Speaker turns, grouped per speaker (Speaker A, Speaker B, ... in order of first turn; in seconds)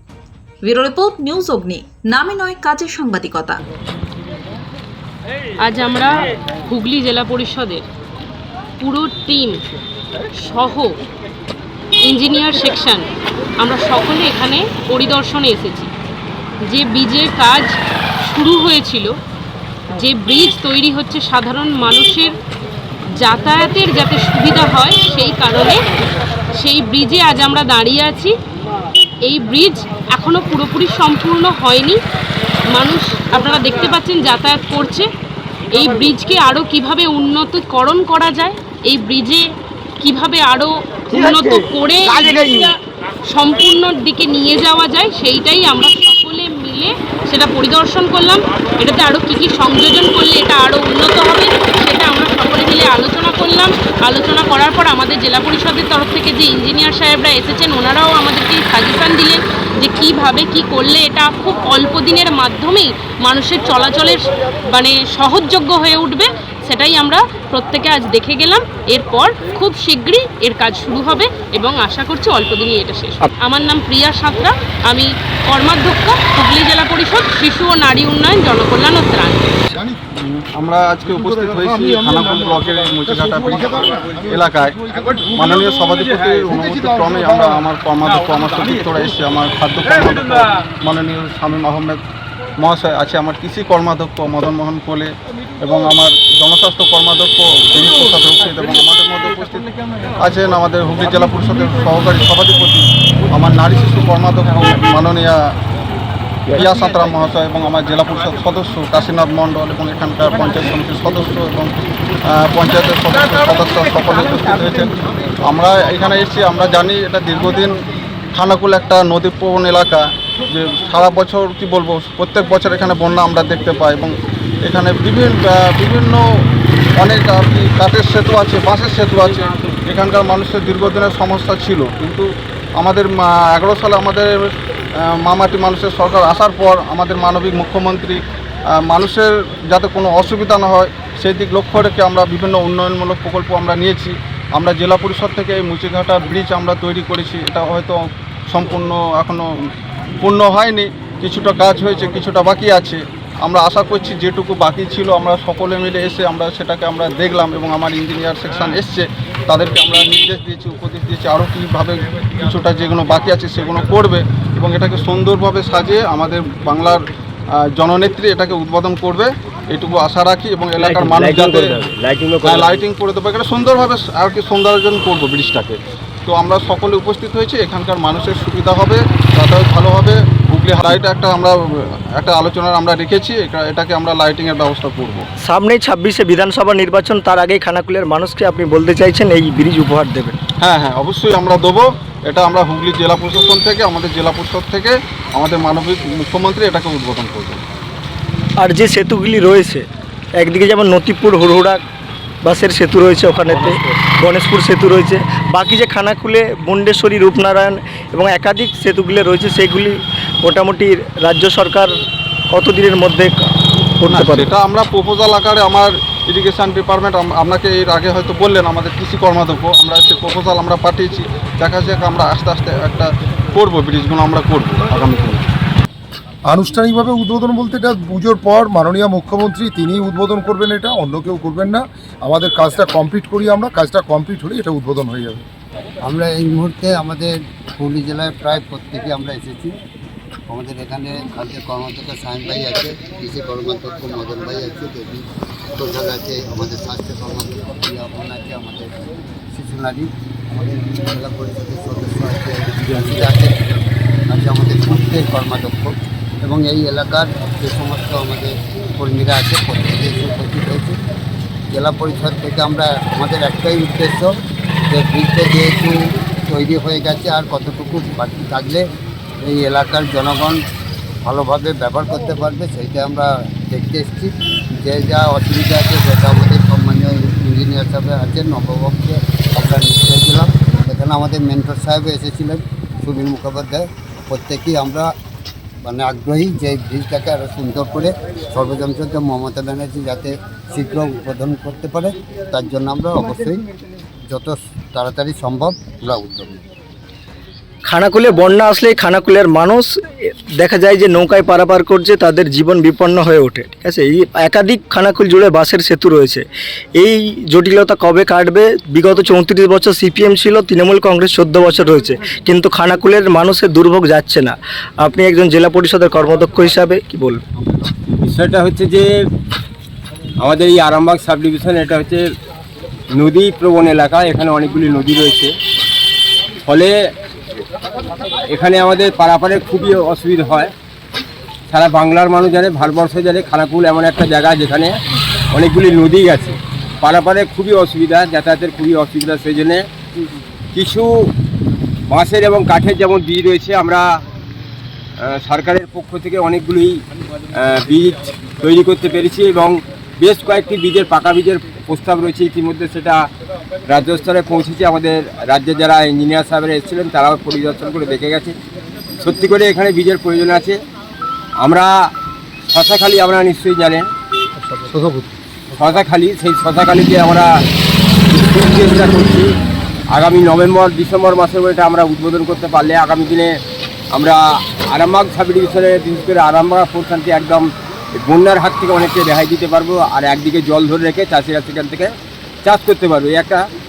Speaker A: 0.6-3.6
Speaker B: 5.6-7.8, 8.8-9.6, 10.4-10.9, 12.1-13.1, 13.6-15.9, 16.7-17.7, 18.3-19.1, 20.0-22.3, 23.2-25.8, 26.6-28.3, 29.3-32.0, 32.7-35.1, 35.7-39.4, 40.0-42.7, 43.3-79.5
Speaker C: 80.1-92.0, 92.6-99.7, 100.2-105.5, 106.5-117.8, 118.3-126.2, 127.0-149.5, 150.2-171.9, 172.4-185.3, 190.6-197.6, 203.5-203.8, 214.1-225.4
Speaker D: 170.8-172.8, 318.2-319.1, 320.4-322.2, 323.1-325.5, 326.7-326.9, 328.5-330.7, 331.7-335.0, 335.5-339.9, 340.7-341.1, 342.1-344.2, 345.2-347.0, 347.6-353.3, 353.9-358.6, 359.2-360.8, 361.6-362.1, 362.7-364.1, 365.8-367.6, 368.3-369.5, 370.1-373.6, 374.1-383.7
Speaker E: 185.4-190.4, 198.6-199.9, 200.4-201.8, 202.4-211.9, 212.5-214.5, 297.9-306.4, 307.0-317.4
Speaker F: 226.5-235.4, 364.9-365.2
Speaker G: 236.0-239.7, 240.5-245.2, 245.8-261.0, 261.7-264.3, 264.9-265.9, 266.5-268.8, 269.4-270.6, 271.2-285.1, 285.8-293.6, 294.3-296.6